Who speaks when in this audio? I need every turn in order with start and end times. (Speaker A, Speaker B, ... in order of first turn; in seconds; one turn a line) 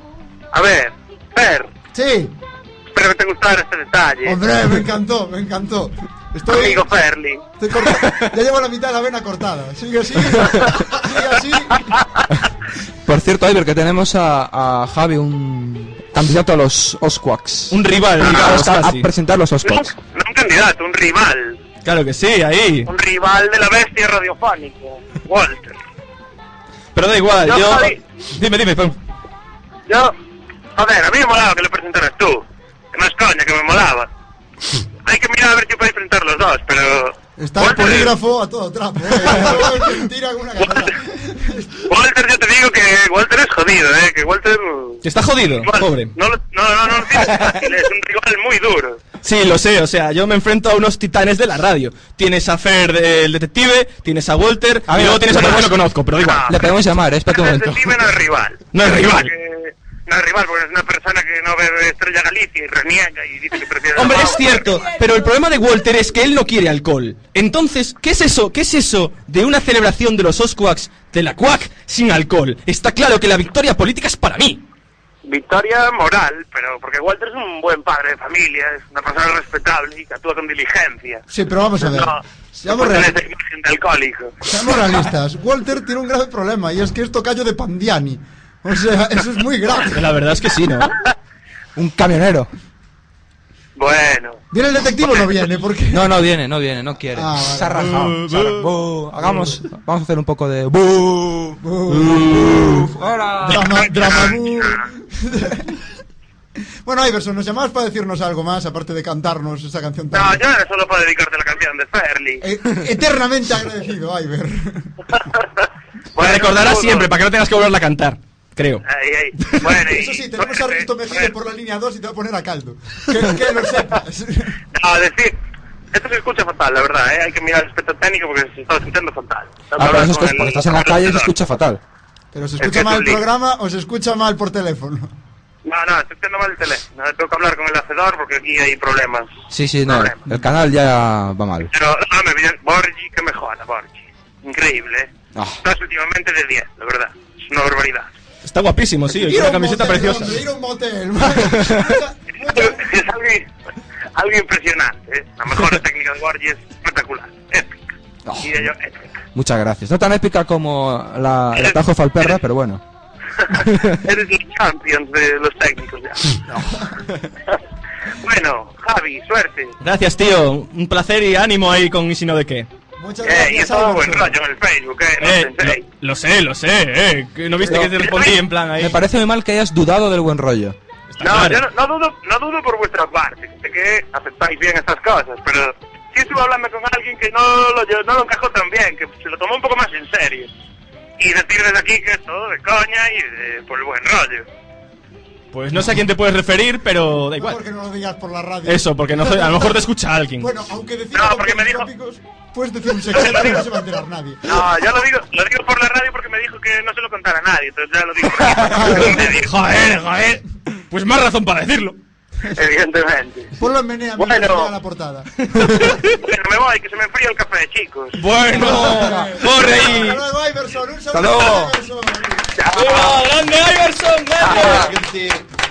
Speaker A: 0.5-1.7
Speaker B: 1.9-2.3
Speaker A: 2.9-4.4
Speaker B: 4.2-6.9
Speaker A: 6.5-7.4
Speaker B: 7.6-12.0
Speaker C: 13.0-19.9
Speaker D: 17.7-19.1
Speaker A: 19.6-21.6
Speaker D: 21.8-22.9
Speaker A: 22.9-25.7
Speaker D: 26.9-29.0
Speaker A: 27.5-28.0
Speaker A: 29.9-30.1
Speaker A: 30.8-34.1
Speaker A: 35.0-38.1
Speaker B: 37.4-41.8
Speaker A: 39.2-39.7
Speaker A: 40.6-40.9
Speaker A: 41.9-45.0
Speaker D: 45.0-46.1
Speaker A: 45.6-49.0
Speaker D: 49.2-56.5
Speaker C: 54.9-55.8
Speaker A: 56.2-56.6
Speaker C: 56.5-58.1
Speaker A: 57.3-64.8
Speaker D: 58.7-59.3
Speaker D: 63.9-74.6
Speaker A: 75.2-81.2
Speaker B: 81.3-83.2
Speaker A: 81.8-84.4
Speaker B: 84.4-90.1
Speaker D: 89.9-90.9
Speaker C: 91.8-92.5
Speaker A: 93.8-94.4
Speaker B: 94.5-96.1
Speaker C: 95.9-103.7
Speaker B: 97.1-98.0
Speaker D: 97.9-98.7
Speaker B: 99.2-99.5
Speaker B: 101.6-102.9
Speaker B: 103.4-105.8
Speaker A: 103.9-104.8
Speaker B: 106.8-110.4
Speaker A: 110.1-112.4
Speaker B: 112.4-114.9
Speaker A: 116.1-117.1
Speaker D: 116.2-118.8
Speaker A: 118.8-121.3
Speaker B: 119.7-124.6
Speaker A: 124.7-125.3
Speaker A: 125.9-131.3
Speaker C: 129.8-131.8
Speaker B: 132.3-135.1
Speaker A: 132.6-133.2
Speaker A: 135.7-139.3
Speaker C: 139.5-141.7
Speaker A: 139.9-140.2
Speaker A: 141.7-145.1
Speaker C: 145.3-145.6
Speaker A: 145.6-148.1
Speaker D: 148.4-150.4
Speaker B: 149.1-152.8
Speaker D: 151.4-151.9
Speaker A: 152.5-153.5
Speaker A: 154.2-157.7
Speaker C: 158.2-158.7
Speaker A: 158.4-159.0
Speaker C: 159.3-162.8
Speaker A: 161.6-162.3
Speaker A: 163.4-166.4
Speaker A: 168.2-169.7
Speaker D: 169.8-172.7
Speaker B: 173.0-174.3
Speaker A: 173.2-175.8
Speaker D: 175.2-179.0
Speaker A: 178.0-178.3
Speaker C: 178.8-180.8
Speaker D: 181.1-181.6
Speaker A: 181.2-190.5
Speaker A: 191.2-194.4
Speaker D: 195.5-197.6
Speaker B: 197.4-199.8
Speaker D: 198.7-200.5
Speaker B: 200.4-204.6
Speaker A: 201.1-201.9
Speaker A: 204.4-209.5
Speaker D: 208.6-212.0
Speaker B: 208.7-209.3
Speaker A: 212.5-213.5
Speaker B: 213.6-215.8
Speaker A: 214.2-214.7
Speaker D: 215.5-216.2
Speaker A: 216.1-218.2
Speaker D: 218.1-220.2
Speaker B: 218.4-222.5
Speaker C: 221.1-221.7
Speaker A: 222.6-223.2
Speaker D: 222.7-224.9
Speaker A: 224.5-224.8